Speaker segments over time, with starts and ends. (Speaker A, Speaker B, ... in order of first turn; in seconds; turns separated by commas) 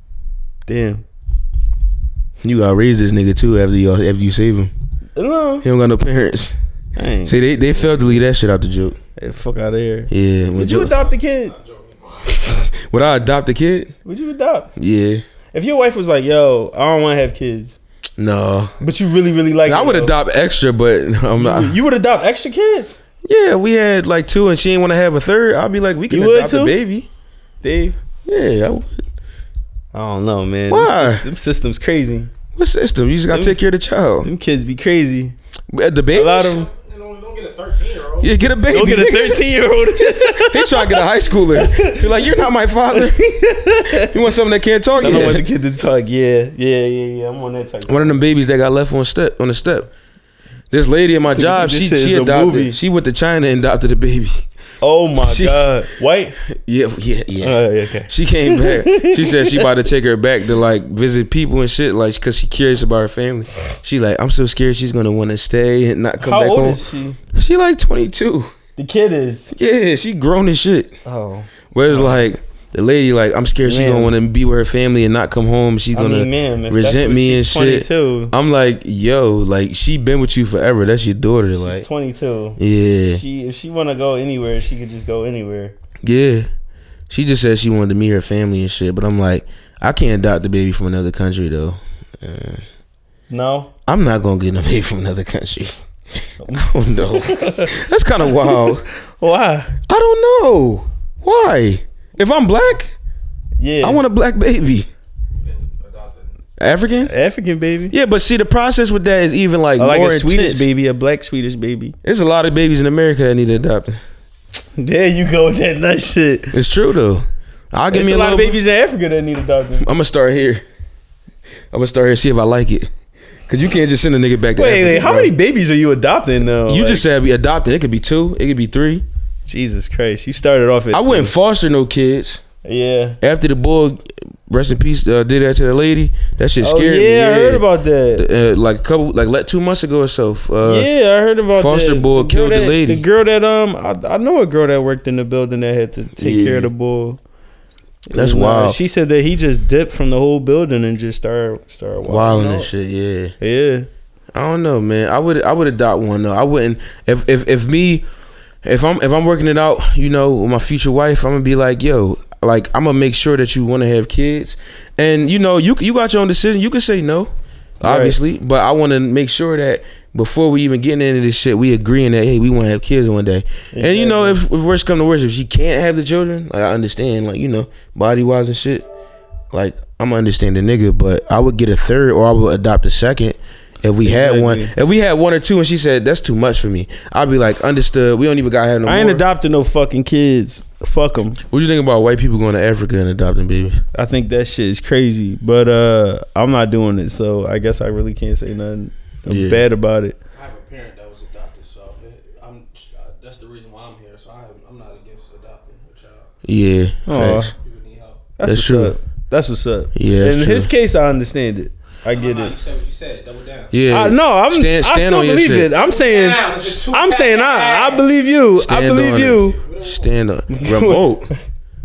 Speaker A: 0.7-1.0, Speaker B: 2.4-4.7, Speaker A: 5.2-5.7, Speaker B: 5.6-6.6, Speaker A: 7.0-8.0, Speaker B: 7.3-9.0, Speaker A: 9.2-11.6, Speaker B: 10.1-10.9, Speaker C: 11.7-12.3, Speaker B: 12.3-13.9, Speaker A: 14.1-14.7, Speaker B: 14.8-15.2, Speaker A: 15.5-17.8, Speaker B: 18.2-18.8, Speaker A: 18.8-20.1, Speaker B: 19.7-21.8, Speaker A: 21.4-23.0, Speaker B: 23.2-27.1, Speaker A: 26.1-26.8, Speaker A: 27.6-28.0, Speaker B: 28.2-29.1, Speaker A: 29.9-32.3, Speaker B: 30.7-31.2, Speaker B: 32.5-34.3, Speaker A: 33.3-33.6, Speaker A: 34.2-35.4, Speaker B: 35.7-36.6, Speaker A: 36.1-36.7, Speaker C: 36.4-38.3, Speaker B: 38.2-43.2, Speaker A: 38.7-42.2, Speaker A: 42.9-44.2, Speaker B: 43.9-45.5, Speaker A: 45.0-48.2, Speaker B: 47.9-49.9, Speaker B: 50.7-54.5, Speaker A: 51.3-52.8, Speaker A: 54.8-56.4, Speaker B: 55.2-55.7, Speaker B: 56.5-66.8, Speaker A: 57.4-59.7, Speaker A: 66.2-67.2, Speaker B: 67.3-68.5, Speaker A: 68.8-69.5, Speaker B: 69.5-70.9, Speaker A: 71.0-72.2, Speaker B: 71.7-81.9, Speaker A: 73.6-74.1, Speaker A: 75.9-78.3, Speaker A: 81.5-85.8, Speaker B: 82.6-83.2, Speaker B: 86.0-86.5, Speaker B: 87.1-92.6, Speaker A: 93.3-93.7, Speaker B: 93.9-95.8, Speaker A: 96.4-97.7, Speaker B: 96.5-98.8, Speaker A: 98.3-99.7, Speaker B: 99.9-102.9, Speaker A: 103.6-104.0, Speaker B: 103.8-104.9, Speaker C: 105.4-106.3, Speaker B: 106.6-107.1, Speaker A: 107.1-108.0, Speaker B: 107.9-110.7, Speaker A: 109.8-112.0, Speaker B: 112.0-114.0, Speaker A: 114.8-116.5, Speaker B: 116.5-118.6, Speaker A: 117.9-119.8, Speaker B: 119.8-120.6, Speaker B: 121.7-122.9, Speaker B: 123.5-125.3, Speaker A: 124.5-127.0, Speaker B: 126.7-129.0, Speaker A: 129.5-131.3, Speaker B: 130.9-132.4, Speaker A: 132.7-133.2, Speaker B: 133.2-140.9, Speaker A: 136.6-138.2, Speaker A: 140.6-147.2, Speaker B: 141.5-143.0, Speaker B: 146.2-146.7, Speaker A: 148.1-152.7, Speaker B: 148.1-148.8, Speaker B: 152.0-153.3, Speaker A: 153.4-153.9, Speaker B: 154.3-158.1, Speaker B: 158.6-178.9, Speaker A: 167.8-168.2, Speaker A: 173.7-174.4, Speaker B: 179.5-189.2, Speaker A: 184.0-184.7, Speaker A: 188.8-191.4, Speaker B: 191.5-193.8, Speaker A: 193.9-200.2, Speaker B: 199.3-199.7, Speaker C: 200.3-206.3, Speaker B: 206.4-207.5, Speaker A: 207.1-207.5, Speaker C: 207.6-208.3, Speaker A: 208.4-212.5, Speaker B: 208.4-208.9, Speaker B: 209.9-210.7, Speaker C: 212.1-213.7, Speaker B: 213.7-215.7, Speaker A: 213.9-219.6, Speaker C: 215.8-218.3, Speaker B: 218.6-221.3, Speaker C: 219.6-220.1, Speaker A: 220.5-221.4